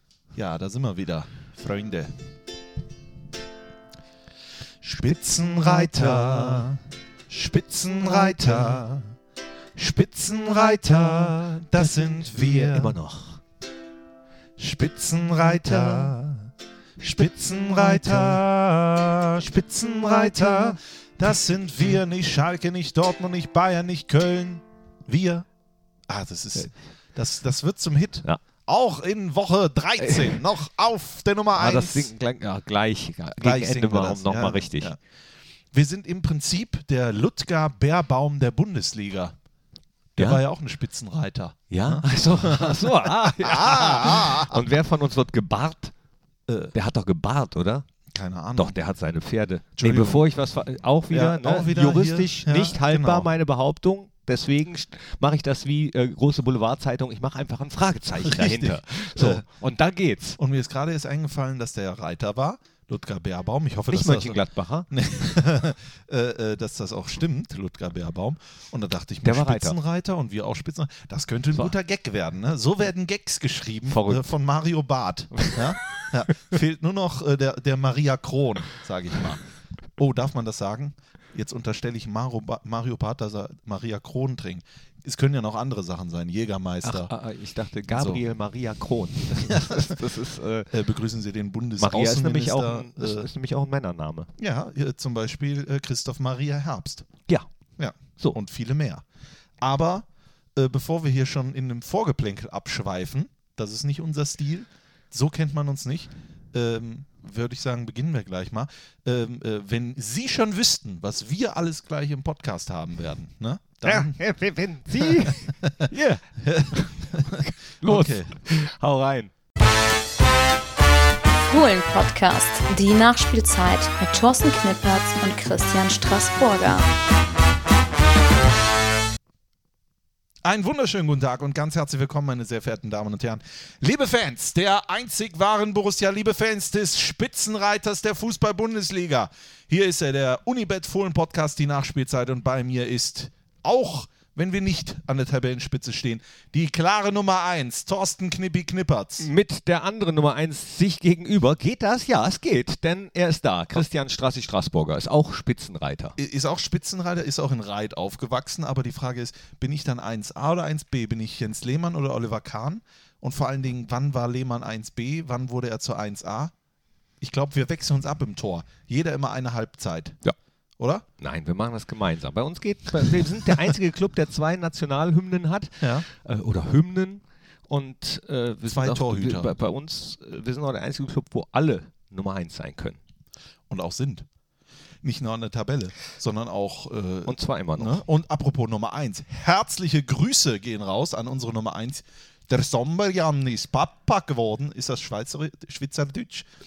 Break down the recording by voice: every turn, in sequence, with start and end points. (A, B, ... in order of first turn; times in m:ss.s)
0:00.4-0:02.2 A
0:04.8-0:09.1 A
0:09.8-0:12.9 A
0:12.5-0:13.4 B
0:14.6-0:25.5 A
0:26.1-0:32.1 A
0:30.0-0:30.3 B
0:31.6-0:35.0 B
0:33.4-0:35.0 A
0:35.7-0:39.4 A
0:40.2-0:44.6 A
0:41.7-0:45.9 B
0:46.5-0:46.7 A
0:46.7-0:47.9 B
0:48.1-0:48.8 A
0:48.6-1:00.4 B
0:49.8-0:50.3 A
0:51.1-0:53.3 A
0:58.2-0:59.4 A
1:00.4-1:19.4 A
1:03.9-1:04.9 B
1:09.2-1:09.8 B
1:13.9-1:14.2 B
1:15.3-1:16.1 B
1:20.0-1:27.1 A
1:26.8-1:30.7 B
1:27.9-1:28.2 A
1:29.3-1:30.0 A
1:30.7-1:33.3 A
1:31.8-1:34.3 B
1:34.4-1:37.1 A
1:37.8-1:39.0 A
1:39.6-1:54.2 A
1:53.8-1:59.3 B
1:54.9-1:58.4 A
2:01.5-2:06.9 C
2:10.4-2:29.3 A
2:29.2-2:36.2 B
2:36.2-2:46.5 A
2:47.2-2:50.2 A
2:50.8-2:51.1 A
2:51.2-3:03.0 B
2:55.8-2:56.1 A
2:58.7-2:59.6 A
3:03.7-3:04.3 A
3:05.0-3:16.5 A
3:07.3-3:08.0 B